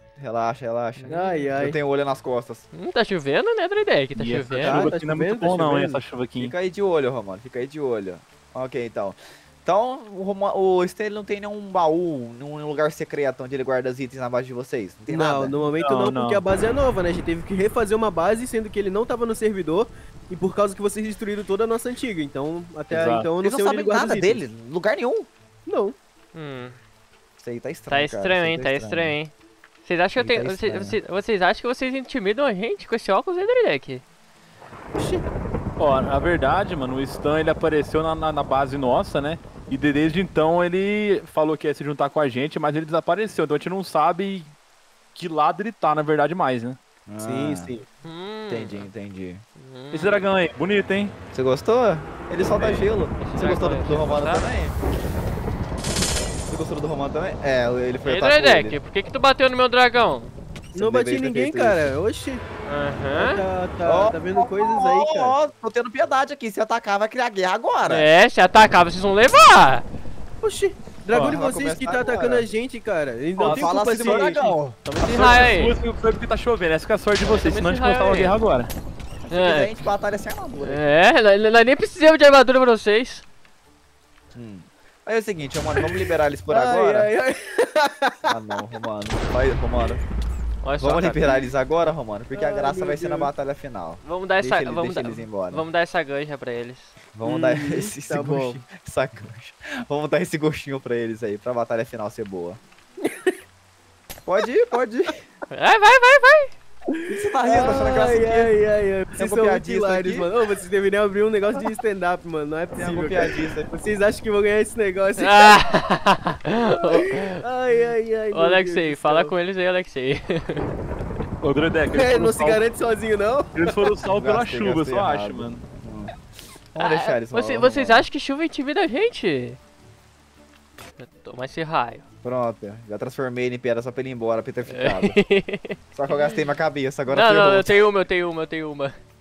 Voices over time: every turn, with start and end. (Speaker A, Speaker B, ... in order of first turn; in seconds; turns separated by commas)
Speaker A: 0.2-2.6, Speaker B: 1.0-1.5, Speaker C: 1.1-1.8, Speaker B: 2.7-4.9, Speaker D: 4.1-6.5, Speaker C: 4.5-6.0, Speaker A: 6.4-15.6, Speaker C: 15.1-24.4, Speaker D: 15.8-16.4, Speaker D: 22.9-23.3, Speaker A: 23.4-25.3, Speaker C: 25.6-25.9, Speaker B: 26.3-26.8, Speaker A: 27.4-29.2, Speaker B: 27.9-29.3, Speaker B: 29.8-34.0, Speaker A: 30.2-31.0, Speaker C: 35.0-35.2, Speaker D: 35.8-44.5, Speaker D: 45.1-46.8, Speaker A: 47.1-47.7, Speaker C: 47.2-47.8, Speaker B: 48.0-48.9, Speaker A: 48.5-49.4, Speaker B: 49.6-50.2, Speaker D: 49.9-51.1, Speaker A: 51.3-54.8, Speaker D: 52.5-52.9, Speaker B: 53.2-54.5, Speaker A: 56.5-58.8, Speaker B: 58.0-60.3, Speaker A: 60.7-61.9, Speaker C: 60.8-62.4, Speaker B: 62.6-63.4, Speaker C: 63.1-65.3, Speaker A: 63.9-68.1, Speaker B: 67.8-69.8, Speaker C: 70.4-74.5, Speaker A: 71.1-72.5, Speaker D: 73.4-78.7, Speaker A: 73.4-75.3, Speaker B: 75.0-75.8, Speaker B: 77.2-78.4, Speaker A: 79.2-80.8, Speaker B: 79.3-79.7, Speaker B: 80.6-83.2, Speaker A: 84.3-87.1, Speaker C: 85.8-88.3, Speaker A: 88.3-90.0, Speaker B: 90.6-91.4, Speaker A: 90.8-95.6, Speaker C: 92.3-93.3, Speaker B: 94.0-96.9, Speaker A: 97.1-102.6, Speaker C: 97.2-98.6, Speaker C: 103.0-103.4, Speaker A: 104.2-105.2, Speaker B: 105.5-106.5, Speaker C: 106.9-115.6, Speaker A: 107.1-108.5, Speaker A: 109.1-110.3, Speaker A: 112.7-113.7, Speaker B: 115.2-117.4, Speaker C: 116.7-119.3, Speaker B: 118.3-120.7, Speaker D: 121.4-122.6, Speaker C: 121.9-123.7, Speaker D: 123.5-125.6, Speaker A: 124.0-126.1, Speaker A: 126.7-128.1, Speaker B: 126.8-129.6, Speaker B: 131.0-132.0, Speaker A: 132.2-135.2, Speaker B: 134.7-136.2, Speaker A: 135.9-137.8, Speaker B: 137.1-138.9